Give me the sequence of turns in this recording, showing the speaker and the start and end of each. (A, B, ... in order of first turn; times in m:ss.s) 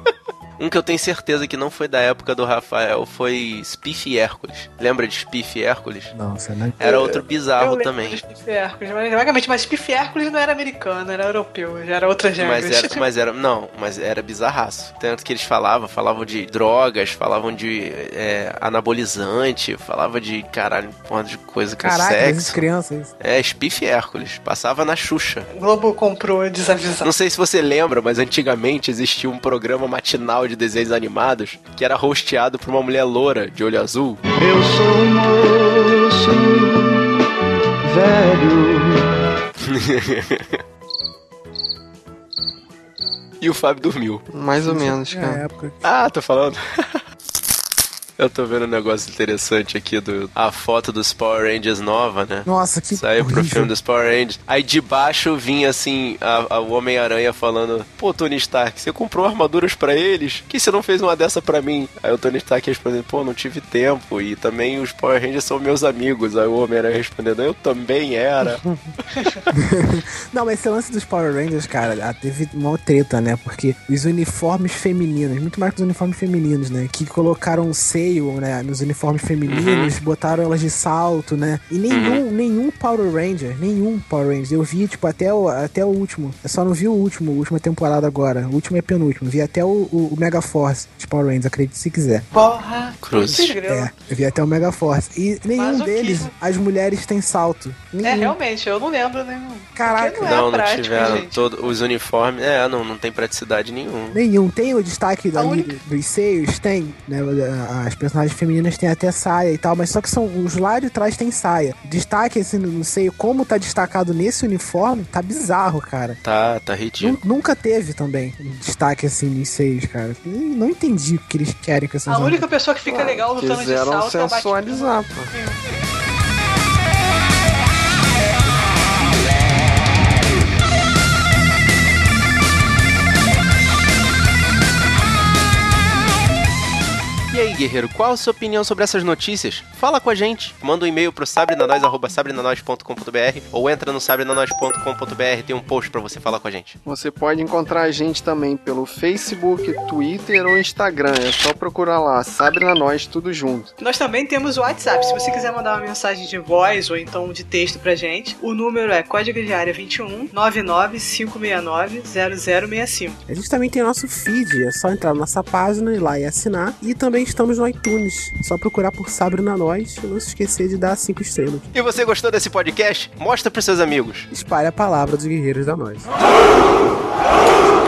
0:00.6-0:06.1 A
0:06.1-0:07.2 B
0:06.8-0:08.2 A
0:07.6-0:13.0 C
0:12.4-0:22.6 A
0:21.8-0:23.1 B
0:23.2-0:25.5 A
0:25.5-0:27.1 C
0:27.0-0:34.2 A
0:34.4-0:37.1 D
0:37.9-0:39.0 D
0:39.6-0:40.6 A
0:43.4-0:44.2 A
0:44.3-0:45.4 E
0:44.6-0:45.8 B
0:45.8-0:47.0 A
0:48.2-1:08.7 A
0:52.4-0:53.7 B
1:09.5-1:32.3 B
1:19.5-1:19.9 A
1:21.9-1:22.2 A
1:32.3-1:33.9 C
1:33.0-1:33.5 A
1:33.3-1:38.4 B
1:35.6-1:36.3 C
1:38.0-1:41.5 C
1:39.8-1:40.4 B
1:40.2-1:44.2 A
1:44.1-1:56.2 B
1:45.3-1:45.8 C
1:56.2-1:57.2 A
1:57.0-2:02.4 B
2:02.1-2:05.6 C
2:02.8-2:05.3 E
2:17.3-2:26.8 A
2:26.8-2:33.7 E
2:33.8-2:43.2 C
2:43.3-2:51.7 B
2:51.7-2:54.3 A
2:54.3-2:56.1 B